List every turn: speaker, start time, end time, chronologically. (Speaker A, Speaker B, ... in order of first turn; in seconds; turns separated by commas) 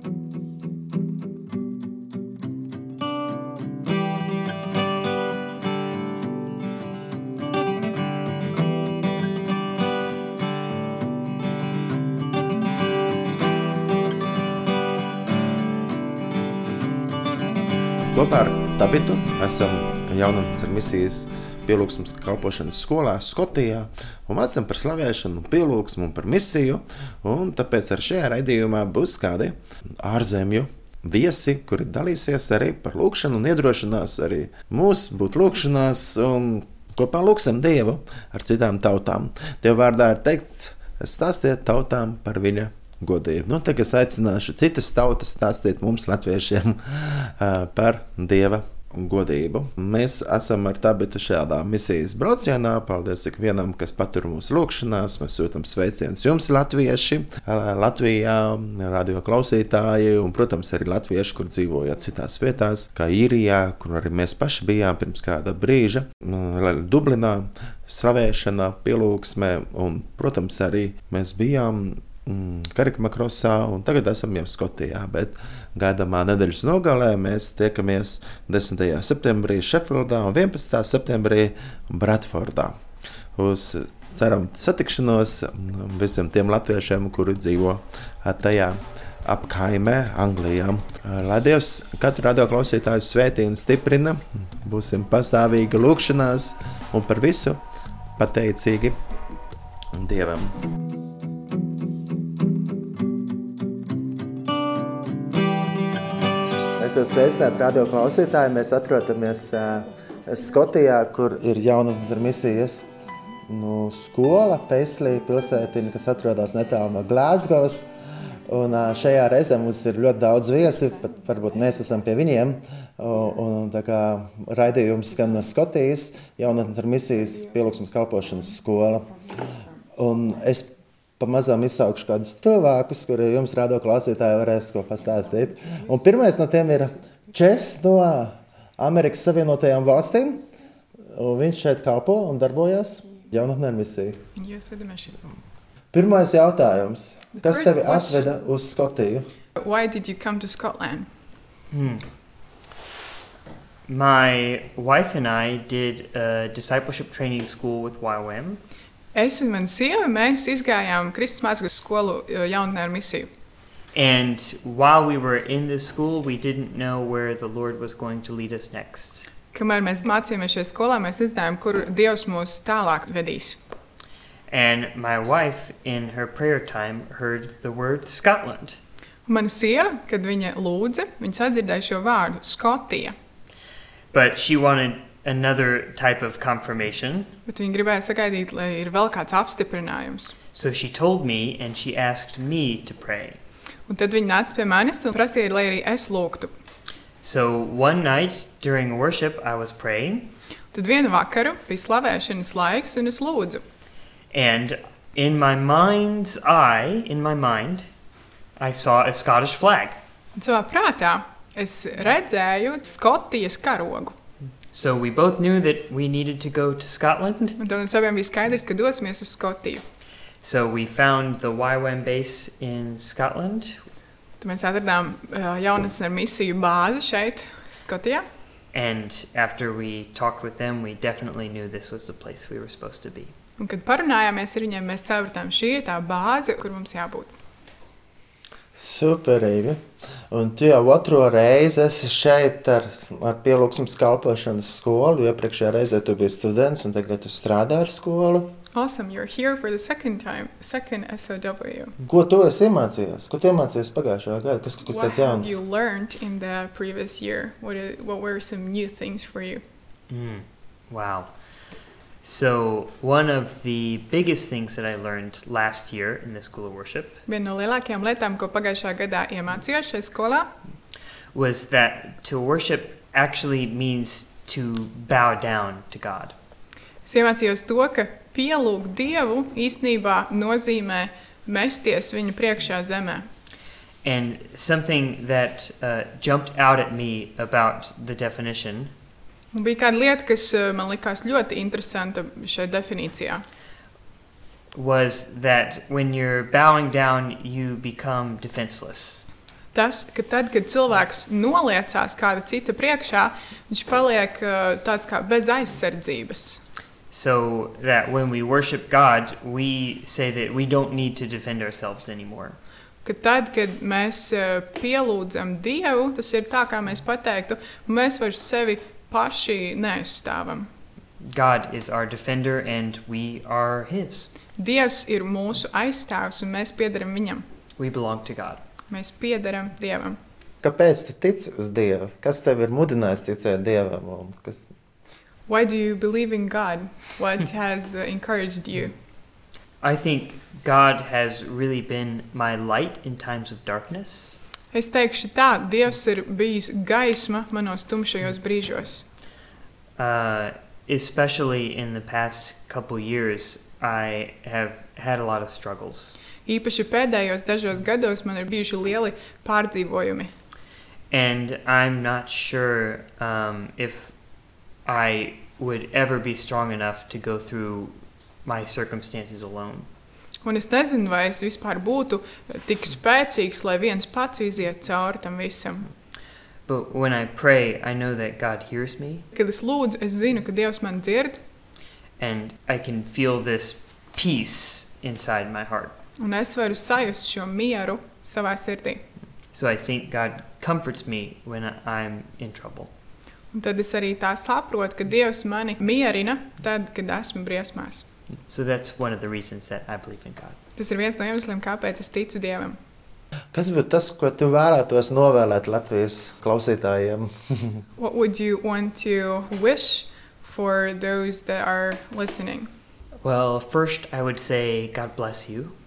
Speaker A: 18.1-82.8, Speaker A: 83.3-97.6, Speaker A: 98.2-99.0, Speaker A: 99.9-100.5, Speaker A: 106.8-112.9, Speaker A: 113.5-117.9, Speaker A: 118.4-129.2, Speaker A: 129.9-140.4, Speaker A: 141.1-144.2, Speaker B: 144.3-145.2, Speaker A: 145.9-149.3, Speaker B: 147.3-148.2, Speaker B: 149.6-151.1, Speaker C: 151.7-152.1, Speaker C: 153.9-158.6, Speaker B: 159.1-163.3, Speaker C: 163.9-169.3, Speaker B: 169.5-173.6, Speaker C: 174.5-178.8, Speaker B: 179.2-183.2, Speaker C: 184.1-187.3, Speaker B: 187.4-190.3, Speaker C: 190.5-193.4, Speaker B: 193.8-196.5, Speaker C: 197.2-200.3, Speaker B: 200.7-203.6, Speaker C: 204.3-207.9, Speaker C: 208.6-210.0, Speaker B: 210.3-214.1, Speaker C: 214.7-217.6, Speaker B: 217.6-219.8, Speaker C: 220.4-223.8, Speaker B: 224.4-228.2, Speaker C: 228.7-233.3, Speaker B: 233.6-237.3, Speaker A: 238.7-248.5, Speaker B: 248.7-251.9, Speaker A: 252.0-255.6, Speaker B: 254.9-259.6, Speaker C: 260.1-261.4, Speaker C: 262.2-267.2, Speaker B: 267.2-270.5, Speaker C: 271.3-276.3, Speaker B: 277.0-283.3, Speaker C: 284.0-288.9, Speaker B: 289.5-293.4, Speaker C: 294.7-299.3, Speaker B: 299.7-306.6, Speaker C: 307.1-312.6, Speaker B: 313.0-320.7, Speaker C: 321.2-324.3, Speaker B: 324.6-327.4, Speaker C: 327.8-328.6, Speaker B: 328.9-330.2, Speaker A: 330.6-334.7, Speaker B: 335.4-339.0, Speaker C: 339.8-344.4, Speaker B: 344.7-349.1, Speaker C: 350.0-356.2, Speaker B: 356.4-360.3, Speaker C: 361.1-369.9, Speaker B: 370.4-375.9, Speaker C: 376.6-379.2, Speaker B: 379.3-381.4, Speaker C: 382.2-385.9, Speaker B: 386.2-389.1, Speaker C: 389.4-392.9, Speaker B: 393.5-398.1, Speaker C: 398.5-400.6, Speaker B: 400.7-402.8, Speaker A: 403.5-407.8, Speaker B: 407.9-412.7, Speaker C: 413.2-415.8